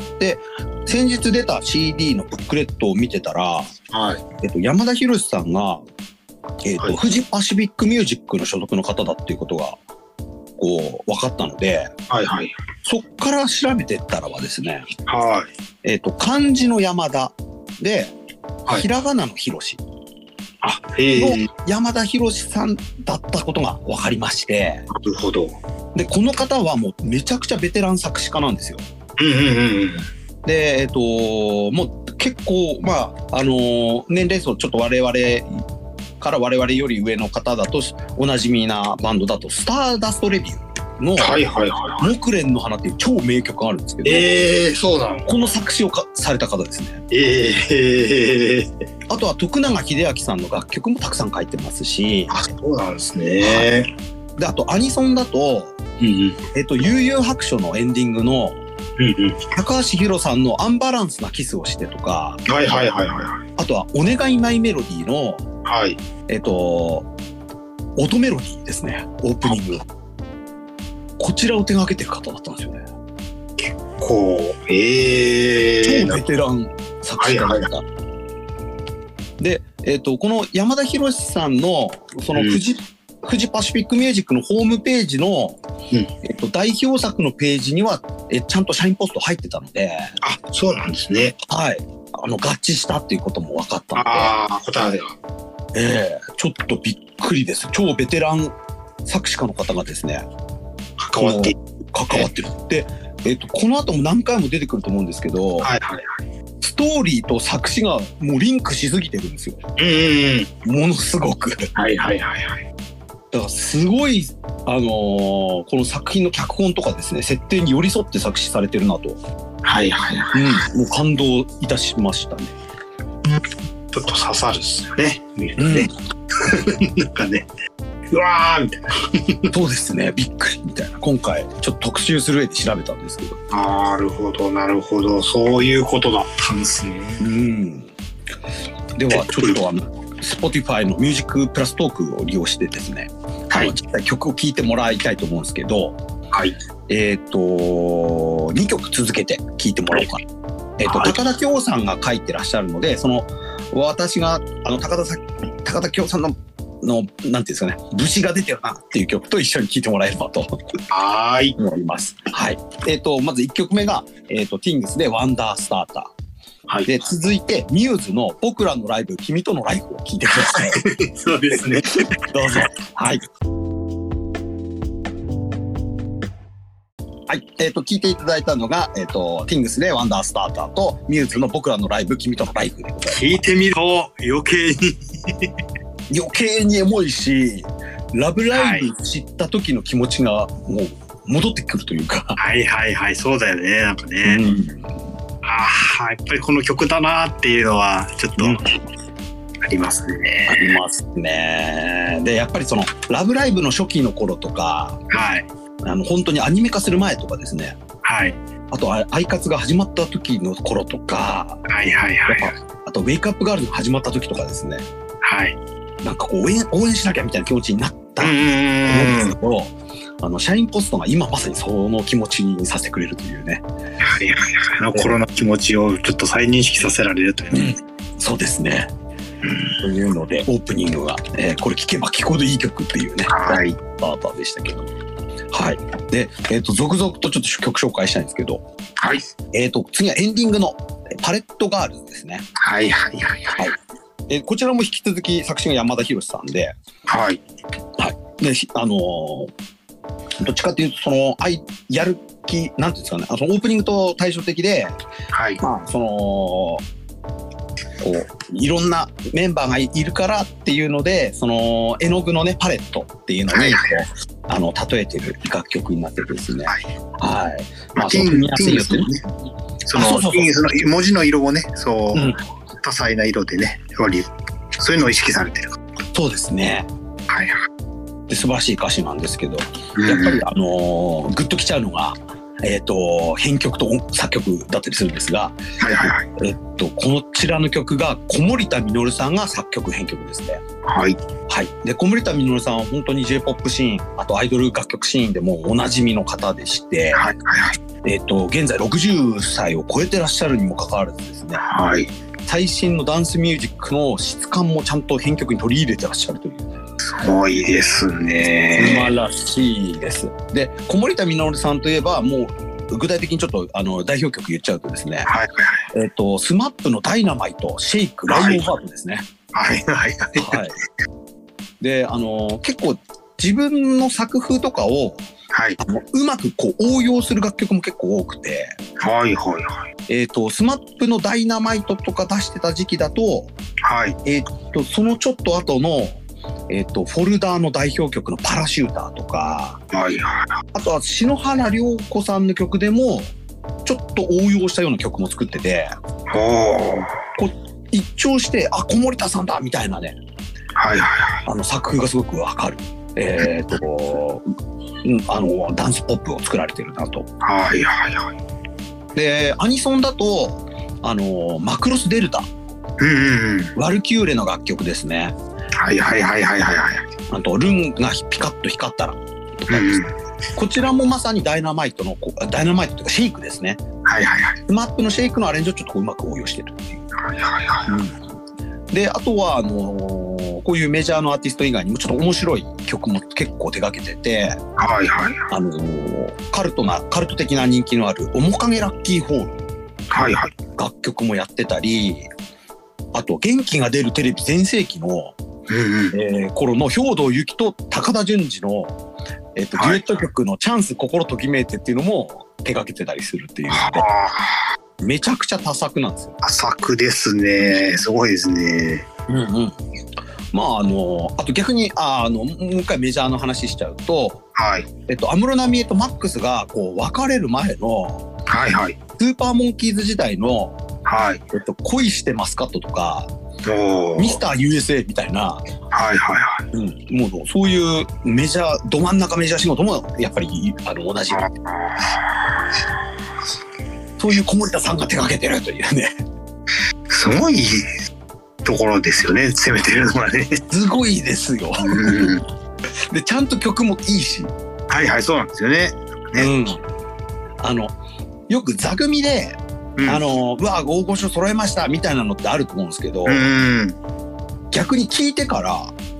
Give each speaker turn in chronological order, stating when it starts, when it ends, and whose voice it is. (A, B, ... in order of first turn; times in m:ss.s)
0:00.2-0:03.7 A
0:03.9-0:04.2 B
0:04.4-0:05.8 A
0:06.6-0:09.8 A
0:10.6-0:11.9 A
0:12.1-0:12.5 B
0:12.8-0:14.8 A
0:15.1-0:15.5 B
0:15.8-0:18.1 A
0:18.7-0:19.8 A
0:20.6-0:21.5 B
0:21.1-0:24.8 A
0:24.9-0:25.6 B
0:25.9-0:28.8 A
0:29.2-0:30.0 B
0:30.4-0:35.6 A
0:36.2-0:41.4 A
0:41.2-0:42.1 B
0:42.0-0:44.4 A
0:44.0-0:45.4 B
0:45.3-0:47.0 A
0:47.1-0:48.7 B
0:49.1-0:52.3 A
0:52.3-0:53.9 B
0:53.4-0:53.7 A
0:54.4-0:55.8 A
0:56.0-0:56.4 B
0:56.5-0:58.6 A
0:59.0-0:59.4 B
0:59.5-1:02.4 A
1:02.4-1:03.4 B
1:03.6-1:05.4 A
1:05.6-1:06.0 B
1:06.3-1:07.1 A
1:08.0-1:09.8 A
1:11.2-1:12.8 A
1:13.6-1:16.2 B
1:15.8-1:17.8 A
1:17.2-1:17.7 B
1:19.4-1:25.6 A
1:22.3-1:22.6 B
1:26.2-1:30.2 A
1:30.2-1:31.4 B
1:31.4-1:34.3 A
1:33.9-1:35.1 B
1:35.7-1:40.2 A
1:41.0-1:41.6 B
1:41.2-1:45.7 A
1:45.6-1:46.0 B
1:46.6-1:49.6 A
1:49.8-1:50.5 B
1:50.6-1:51.7 A
1:51.7-1:52.6 B
1:53.3-1:59.2 A
1:59.6-2:00.6 B
2:00.3-2:02.5 A
2:03.9-2:07.4 B
2:05.6-2:05.9 A
2:08.1-2:09.5 B
2:09.5-2:13.4 A
2:13.5-2:17.2 B
2:17.2-2:17.9 A
2:19.0-2:26.0 A
2:19.1-2:19.6 B
2:26.9-2:30.2 A
2:30.8-2:40.6 A
2:30.9-2:31.2 B
2:40.9-2:41.6 B
2:41.6-2:46.1 A
2:46.8-2:50.8 A
2:50.3-2:52.0 B
2:52.3-2:53.2 A
2:57.3-3:03.3 A
3:03.1-3:05.5 B
3:06.1-3:12.4 A
3:08.5-3:08.9 B
3:12.4-3:14.4 B
3:14.2-3:15.0 A
3:15.4-3:18.6 B
3:18.4-3:18.6 A
3:19.6-3:20.8 B
3:20.5-3:25.0 A
3:25.1-3:25.5 B
3:25.8-3:27.8 A
3:28.0-3:28.4 B
3:28.7-3:31.6 A
3:31.7-3:32.5 B
3:32.3-3:34.8 A
3:35.2-3:35.6 B
3:36.0-3:38.4 A
3:38.2-3:39.4 B
3:38.9-3:43.6 A
3:44.0-3:47.8 B
3:47.5-3:48.9 A
3:49.4-3:49.8 B
3:49.8-3:54.9 A
3:53.3-3:53.8 B
3:55.5-3:58.6 A
3:59.0-3:59.2 B
3:59.5-4:02.4 A
4:02.6-4:03.7 B
4:04.3-4:06.7 A
4:07.1-4:07.4 B
4:08.0-4:09.5 A
4:10.4-4:15.0 A
4:15.3-4:15.6 B
4:15.6-4:16.8 A
4:18.0-4:29.1 A
4:23.5-4:24.0 B
4:28.0-4:29.2 B
4:29.9-4:35.8 B
4:29.9-4:30.5 A
4:32.1-4:32.4 A
4:36.1-4:36.9 A
4:37.3-4:37.6 B
4:38.3-4:45.6 A
4:40.0-4:40.4 B
4:45.8-4:46.3 B
4:46.4-4:50.6 A
4:50.8-4:51.2 B
4:51.5-4:57.3 A
4:57.1-4:57.8 B
4:58.0-5:01.6 A
5:01.6-5:02.1 B
5:02.4-5:06.7 A
5:07.0-5:09.1 B
5:08.8-5:15.3 A
5:15.3-5:15.8 B
5:15.9-5:19.2 A
5:18.3-5:18.6 B
5:19.5-5:20.6 B
5:20.4-5:20.7 A
5:21.8-5:25.2 A
5:25.5-5:25.8 B
5:25.8-5:28.7 A
5:29.0-5:29.8 B
5:30.1-5:33.5 A
5:33.8-5:34.2 B
5:34.2-5:39.8 A
5:39.9-5:40.5 B
5:40.7-5:43.3 A
5:43.8-5:45.9 A
5:46.3-5:47.2 B
5:47.4-5:50.2 A
5:50.8-5:51.4 B
5:51.4-5:54.4 A
5:55.0-5:57.3 A
5:57.4-5:58.3 B
5:59.1-6:02.5 A
6:03.0-6:03.7 B
6:03.8-6:05.3 A
6:05.8-6:07.1 B
6:07.3-6:10.0 A
6:09.7-6:10.1 B
6:10.6-6:13.8 A
6:14.0-6:14.6 B
6:14.7-6:17.0 A
6:17.2-6:17.9 B
6:17.9-6:18.2 A
6:18.9-6:24.6 A
6:24.8-6:25.4 B
6:25.5-6:29.6 A
6:30.1-6:30.5 B
6:30.8-6:32.3 A
6:33.1-6:35.4 A
6:35.7-6:36.2 B
6:36.1-6:39.0 A
6:39.6-6:44.0 A
6:39.8-6:40.1 B
6:43.7-6:44.6 B
6:45.0-6:46.3 A
6:46.4-6:49.0 B
6:49.3-6:49.8 A
6:50.5-6:54.4 A
6:54.6-6:54.9 B
6:55.1-6:58.2 A
6:58.5-6:59.0 B
6:59.2-7:00.8 A
7:01.0-7:01.4 B
7:01.5-7:03.3 A
7:03.6-7:04.4 B
7:04.2-7:05.6 A
7:05.9-7:06.6 B
7:06.7-7:11.5 A
7:11.3-7:12.4 B
7:14.2-7:16.1 A
7:17.1-7:17.9 B
7:18.6-7:20.6 B
7:20.7-7:22.3 A
7:21.8-7:22.4 B
7:23.1-7:24.5 A
7:24.9-7:26.5 B
7:26.4-7:26.8 A
7:27.6-7:27.9 A
7:28.5-7:33.5 A
7:30.0-7:30.2 B
7:33.2-7:34.0 B
7:34.7-7:35.9 A